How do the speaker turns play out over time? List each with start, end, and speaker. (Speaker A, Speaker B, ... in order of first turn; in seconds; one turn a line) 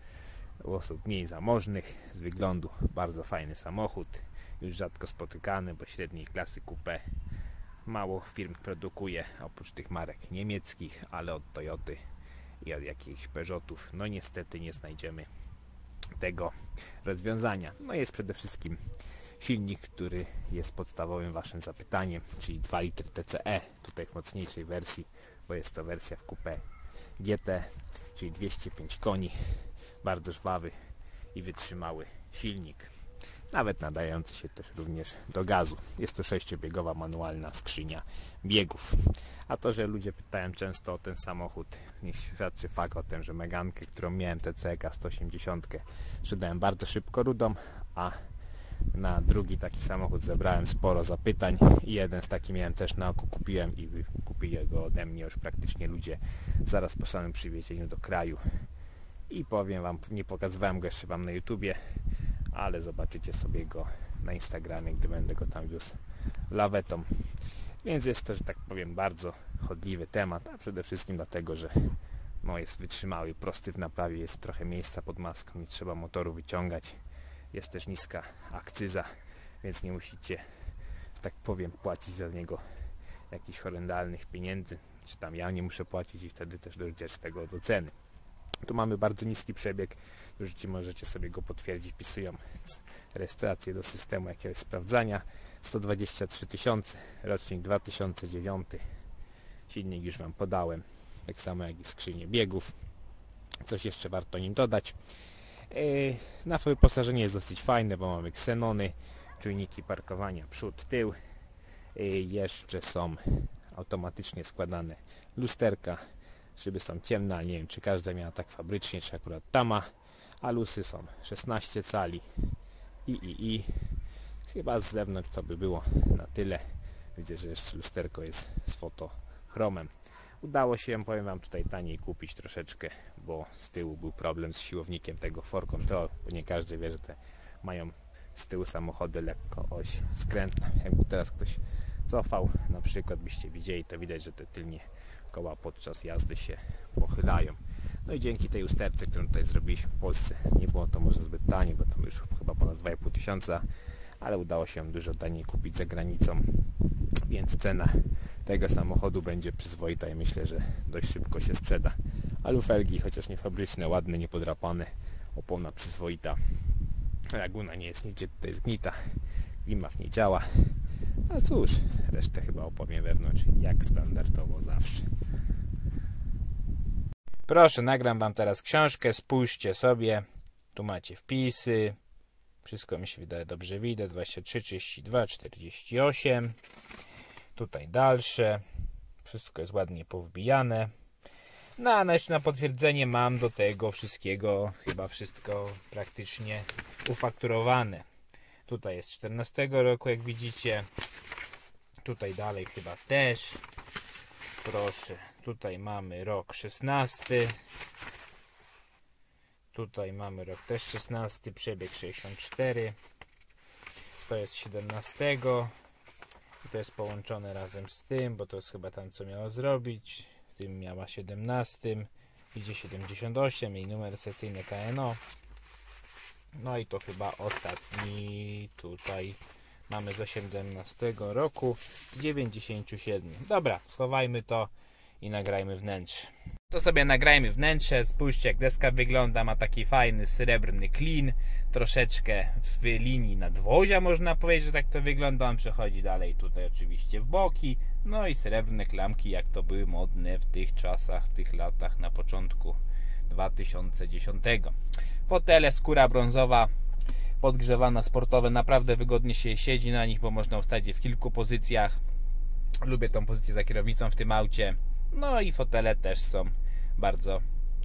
Speaker A: 0.6-7.0
Speaker A: 7.8-12.0
Speaker A: 12.6-15.3
Speaker A: 16.1-18.8
Speaker A: 19.4-26.6
Speaker A: 27.2-30.7
Speaker A: 31.3-32.9
Speaker A: 33.5-48.2
Speaker A: 48.9-58.6
Speaker A: 59.3-61.8
Speaker A: 62.5-66.0
Speaker A: 66.5-79.1
Speaker A: 79.6-80.4
Speaker A: 81.2-82.6
Speaker A: 83.3-87.9
Speaker A: 88.6-98.8
Speaker A: 99.7-102.7
Speaker A: 103.6-105.0
Speaker A: 105.7-111.2
Speaker A: 111.9-116.0
Speaker A: 116.5-119.9
Speaker A: 120.4-122.3
Speaker A: 123.0-123.9
Speaker A: 124.5-153.6
Speaker A: 154.2-156.7
Speaker A: 157.2-166.6
Speaker A: 167.3-170.8
Speaker A: 171.3-175.1
Speaker A: 177.5-181.9
Speaker A: 182.6-186.6
Speaker A: 187.5-188.6
Speaker A: 189.2-190.9
Speaker A: 191.8-198.0
Speaker A: 198.7-200.9
Speaker A: 202.0-203.6
Speaker A: 204.6-207.6
Speaker A: 209.7-212.9
Speaker A: 214.2-215.7
Speaker A: 216.6-225.2
Speaker A: 226.6-254.7
Speaker A: 255.3-256.7
Speaker A: 257.4-262.0
Speaker A: 262.8-267.4